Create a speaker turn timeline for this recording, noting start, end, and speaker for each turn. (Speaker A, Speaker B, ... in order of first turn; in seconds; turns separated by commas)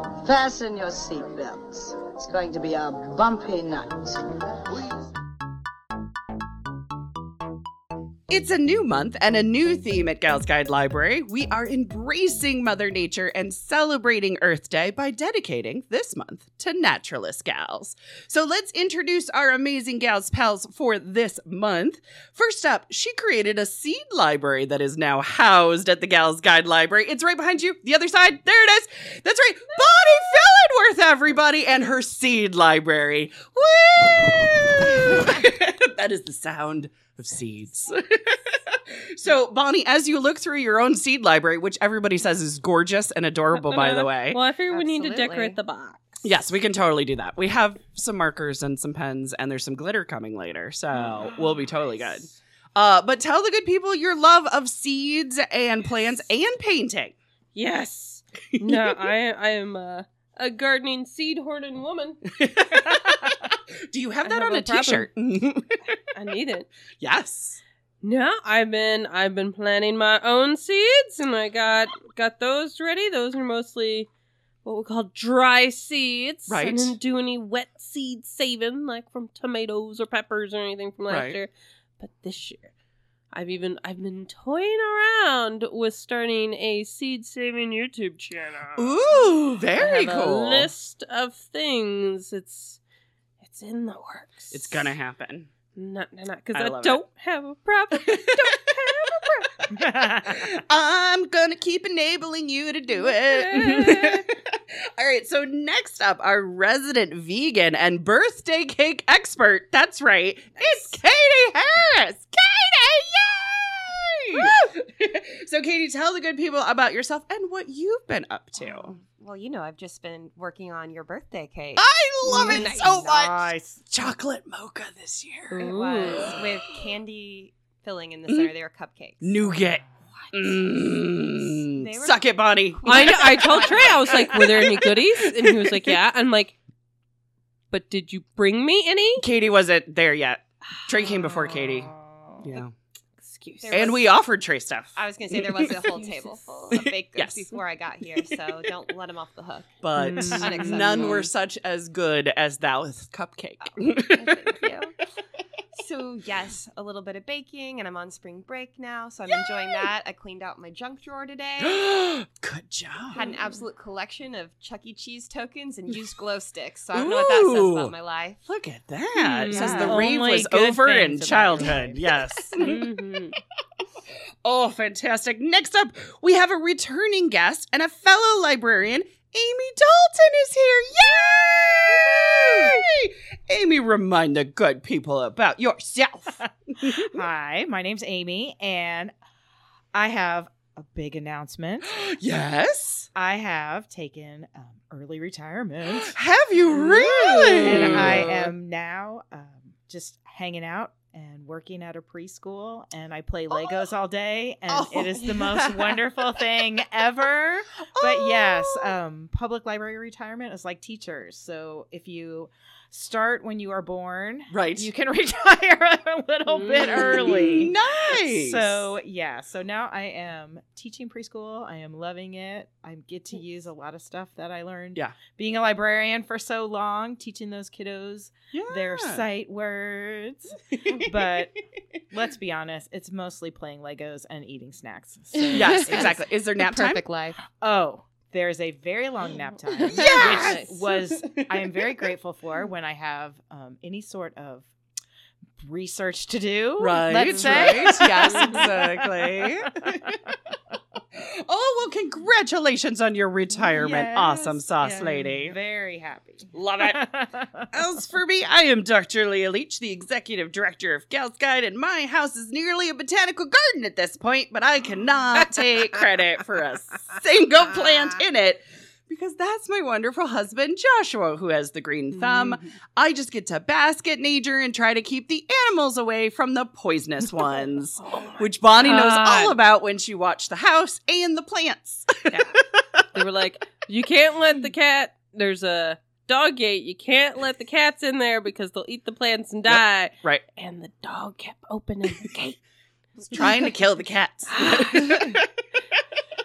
Speaker A: 0.2-5.0, Speaker B: 8.3-44.4, Speaker C: 43.5-46.3, Speaker D: 44.7-45.6, Speaker B: 46.2-57.2, Speaker C: 57.5-62.2, Speaker B: 58.5-59.1, Speaker B: 62.3-65.8, Speaker C: 64.2-65.1, Speaker C: 66.0-66.7, Speaker B: 67.0-67.6, Speaker C: 68.0-74.1, Speaker C: 74.6-82.7, Speaker B: 76.5-77.0, Speaker B: 81.1-81.4, Speaker C: 83.3-92.8, Speaker B: 88.8-90.7, Speaker C: 93.4-94.9, Speaker B: 94.5-95.5, Speaker C: 95.8-99.7, Speaker B: 96.5-97.0, Speaker B: 97.9-99.1, Speaker B: 99.6-119.0, Speaker E: 99.7-100.5, Speaker C: 103.0-104.2, Speaker D: 118.8-123.3, Speaker B: 121.8-126.5, Speaker C: 122.4-122.6, Speaker E: 122.4-123.8, Speaker C: 125.5-126.4, Speaker D: 125.6-134.5, Speaker B: 128.3-128.5, Speaker B: 129.2-135.9, Speaker C: 132.8-136.6, Speaker C: 137.7-139.3, Speaker B: 139.2-142.7, Speaker C: 143.2-144.0, Speaker D: 143.6-144.1, Speaker B: 143.7-146.0, Speaker D: 144.9-149.8, Speaker C: 146.0-146.2, Speaker B: 146.7-147.6, Speaker B: 148.2-148.7, Speaker B: 149.8-154.6, Speaker C: 150.0-151.2, Speaker D: 150.3-151.3, Speaker D: 153.6-154.9, Speaker D: 155.7-161.8, Speaker B: 159.3-159.9, Speaker B: 161.6-163.3, Speaker D: 163.1-168.4, Speaker B: 166.9-167.9, Speaker B: 168.5-172.8, Speaker C: 169.2-170.0, Speaker D: 169.5-170.0, Speaker E: 169.6-172.0, Speaker D: 171.5-172.8, Speaker C: 172.6-173.4, Speaker B: 174.4-187.2, Speaker E: 186.9-189.1, Speaker E: 189.9-192.0, Speaker B: 191.8-193.1, Speaker E: 193.2-196.2, Speaker B: 196.0-198.3, Speaker C: 197.0-198.5, Speaker E: 197.3-236.2, Speaker B: 203.5-203.8, Speaker B: 204.7-206.0, Speaker B: 207.9-208.9, Speaker B: 214.5-214.9, Speaker C: 216.5-217.7, Speaker B: 216.9-218.8, Speaker B: 228.5-229.2, Speaker B: 230.7-231.4, Speaker B: 235.5-237.0, Speaker D: 235.6-237.4, Speaker E: 237.6-244.7, Speaker C: 239.9-240.7, Speaker B: 239.9-242.0, Speaker E: 245.6-250.2, Speaker B: 246.8-250.2, Speaker C: 248.3-248.6, Speaker B: 251.1-255.6, Speaker E: 253.6-257.7, Speaker B: 256.5-257.0, Speaker B: 257.7-282.6, Speaker C: 272.1-272.6, Speaker C: 278.0-279.6, Speaker C: 282.3-282.6, Speaker C: 283.1-292.6, Speaker B: 289.7-290.4, Speaker C: 293.2-293.6, Speaker B: 293.3-296.0, Speaker C: 294.5-295.4